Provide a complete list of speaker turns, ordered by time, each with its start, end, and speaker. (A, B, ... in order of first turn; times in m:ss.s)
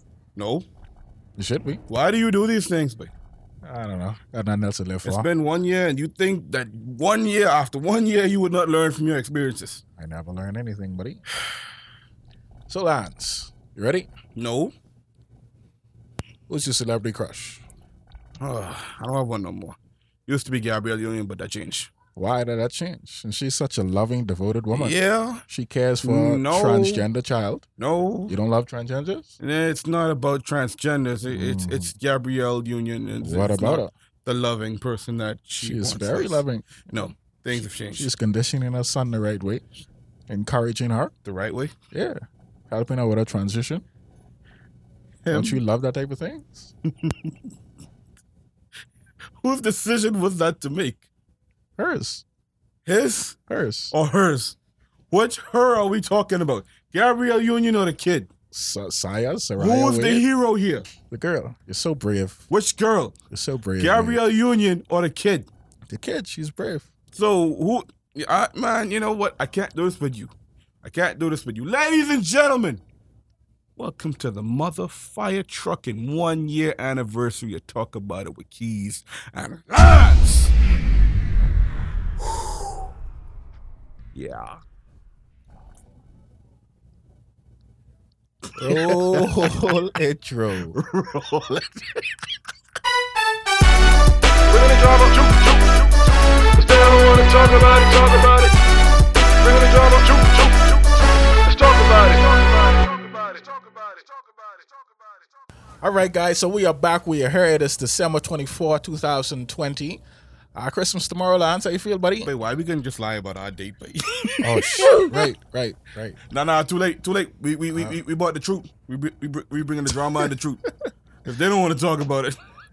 0:00.4-0:00.7 A
0:01.4-0:01.8 B
0:01.9-0:03.1 A
0:03.6-0:05.3 B
0:05.0-0:09.8 A
0:10.0-0:11.2 B
0:12.7-0:14.1 B
0:14.3-0:14.7 A
0:16.5-0:17.6 B
0:18.4-0:21.9 A
0:22.1-0:24.9 B
0:24.7-0:25.4 A
0:25.5-0:27.6 B
0:26.0-0:27.1 A
0:27.8-0:28.3 A
0:28.3-0:29.3 B
0:29.4-0:38.1 A
0:31.3-0:31.9 B
0:33.2-0:33.9 B
0:35.6-0:36.8 B
0:37.9-0:39.6 B
0:40.3-0:41.1 B
0:41.2-0:41.7 A
0:41.9-0:43.8 B
0:45.2-0:45.6 A
0:45.3-0:46.7 B
0:46.9-0:47.3 A
0:49.4-0:51.0 A
0:51.8-0:52.2 B
0:52.8-0:53.4 A
0:53.5-0:53.9 B
0:53.9-0:54.6 A
0:55.1-0:58.3 A
0:58.5-1:00.2 B
0:59.6-1:00.9 A
1:01.1-1:02.5 B
1:02.5-1:03.1 A
1:03.3-1:04.2 B
1:03.8-1:05.5 A
1:05.9-1:06.9 B
1:07.1-1:10.3 A
1:10.8-1:12.8 A
1:13.8-1:20.5 A
1:24.1-1:24.6 A
1:28.5-1:29.5 A
1:28.6-1:30.8 B
1:30.7-1:32.2 A
1:34.5-1:35.9 C
1:36.5-1:38.5 C
1:39.4-1:45.0 C
1:45.8-1:50.0 B
1:50.5-1:52.3 B
1:52.2-1:55.2 A
1:54.4-1:56.2 B
1:56.3-2:00.6 A
2:01.2-2:02.4 A